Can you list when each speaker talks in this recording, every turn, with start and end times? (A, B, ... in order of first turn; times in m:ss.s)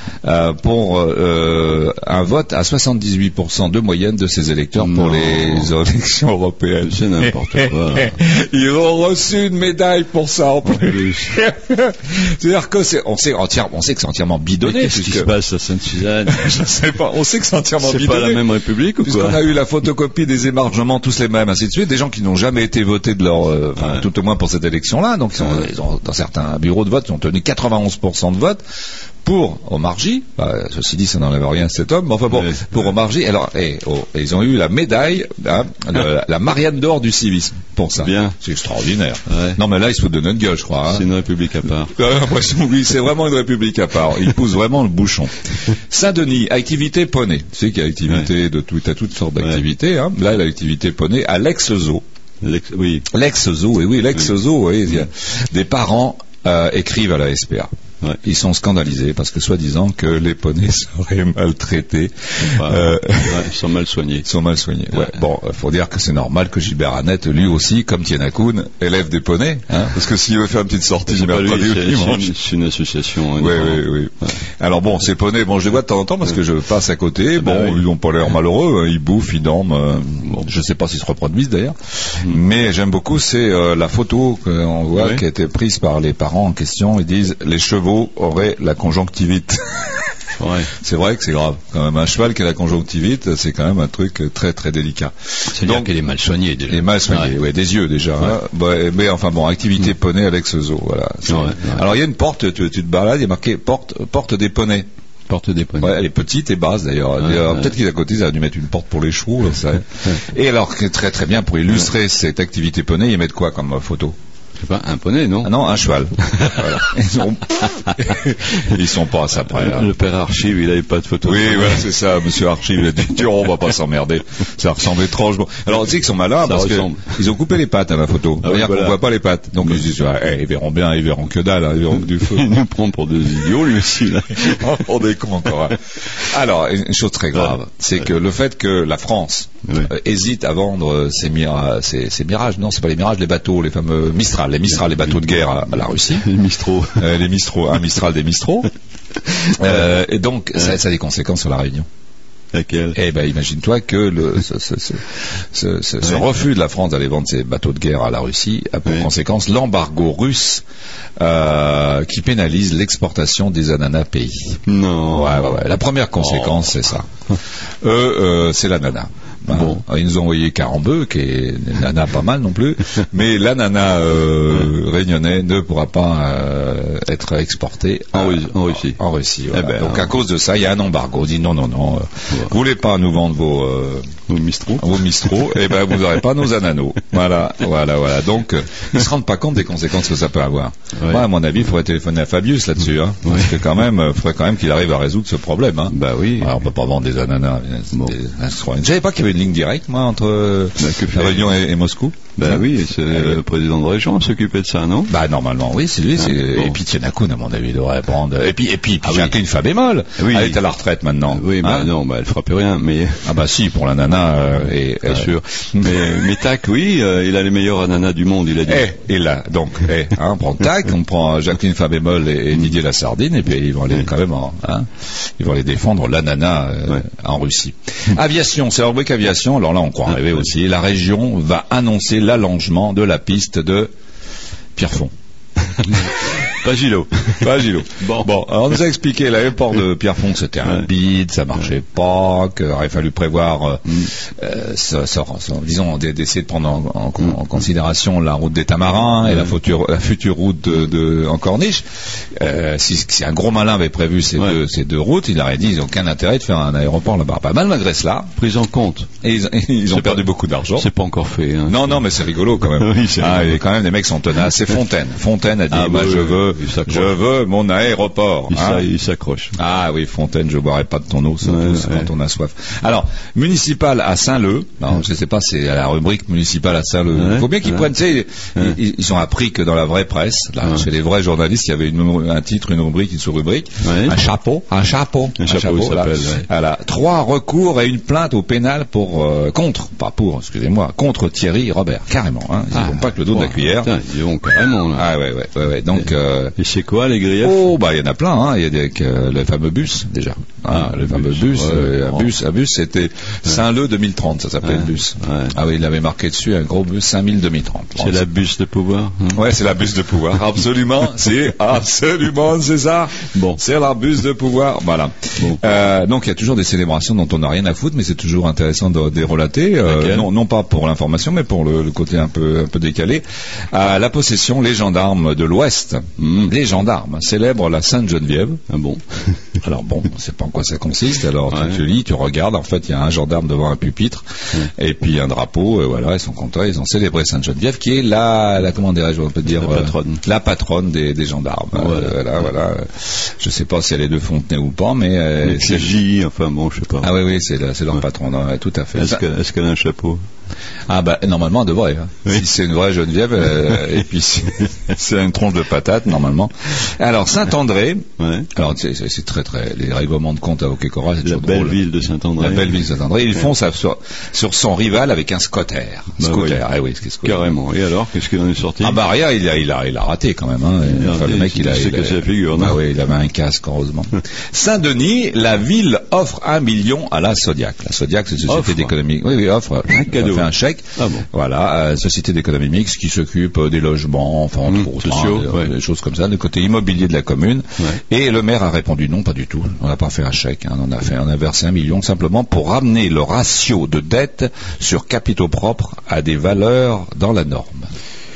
0:00.2-0:15.3 A
0:04.8-0:05.7 B
0:06.8-0:08.2 B
0:10.6-0:11.4 B
0:14.6-0:16.7 B
0:16.2-0:18.5 A
0:17.8-0:19.5 B
0:19.0-0:28.6 A
0:23.8-0:24.1 B
0:29.2-0:41.1 A
0:38.0-0:38.4 B
0:39.3-0:39.6 B
0:40.9-0:41.9 B
0:41.9-0:52.0 A
0:52.4-0:53.1 B
0:53.1-0:57.7 A
0:58.2-1:03.4 A
1:02.4-1:04.3 B
1:04.2-1:12.3 A
1:11.1-1:14.3 B
1:13.4-1:30.2 A
1:17.4-1:17.8 B
1:24.9-1:25.2 B
1:30.4-1:30.7 B
1:30.7-1:35.9 A
1:35.5-1:37.4 B
1:36.7-1:44.9 A
1:41.3-1:41.9 B
1:45.3-1:46.0 B
1:45.8-1:54.2 A
1:47.2-1:47.7 B
1:54.6-1:55.5 B
1:55.4-1:59.9 A
1:56.4-1:56.8 B
1:59.5-2:02.0 B
2:01.2-2:12.5 A
2:06.4-2:07.4 B
2:08.4-2:09.0 B
2:12.0-2:14.9 B
2:14.4-2:26.3 A
2:24.8-2:27.2 B
2:27.0-2:28.7 A
2:29.4-2:31.8 A
2:32.5-2:33.0 B
2:32.9-2:40.6 A
2:41.2-2:47.1 A
2:44.7-2:46.7 B
2:47.8-3:04.1 A
2:49.5-2:49.8 B
2:58.1-3:00.1 B
3:04.3-3:05.1 B
3:04.8-3:23.4 A
3:11.0-3:11.3 B
3:13.2-3:13.8 B
3:15.9-3:16.5 B
3:20.8-3:21.6 B
3:22.4-3:25.2 B
3:25.1-3:31.9 A
3:26.2-3:26.8 B
3:29.0-3:29.4 B
3:30.2-3:30.6 B
3:31.3-3:33.4 B
3:33.2-3:36.2 A
3:35.1-3:39.0 B
3:38.6-3:53.9 A
3:50.1-3:50.4 B
3:54.8-3:55.1 A
3:55.7-3:58.3 B
3:57.4-4:18.4 A
4:09.3-4:09.5 B
4:18.4-4:19.1 B
4:19.2-4:20.9 A
4:19.9-4:23.6 B
4:21.7-4:28.9 A
4:25.7-4:27.2 B
4:28.5-4:29.6 B
4:29.6-4:53.9 A
4:31.4-4:32.1 B
4:37.1-4:37.9 B
4:43.8-4:44.2 B
4:45.4-4:46.5 B
4:52.7-4:55.1 B
4:54.9-4:56.6 A
4:56.0-4:57.7 B
4:57.4-5:08.2 A
5:00.7-5:02.3 B
5:04.6-5:05.6 B
5:08.0-5:09.4 B
5:09.3-5:28.6 A
5:13.3-5:13.6 B
5:15.4-5:15.6 B
5:19.8-5:20.3 B
5:26.2-5:26.5 B
5:28.7-5:29.6 B
5:29.6-5:46.0 A
5:31.5-5:31.8 B
5:39.5-5:40.2 B
5:41.7-5:42.4 B
5:45.4-5:47.2 B
5:47.0-5:49.2 A
5:48.9-5:50.2 B
5:50.9-6:01.8 A
5:58.2-5:58.5 B
6:01.2-6:02.8 B
6:02.4-6:07.6 A
6:06.2-6:06.6 B
6:07.2-6:09.0 B
6:08.8-6:37.9 A
6:10.8-6:12.8 B
6:18.5-6:19.0 B
6:19.9-6:21.3 B
6:24.7-6:25.7 B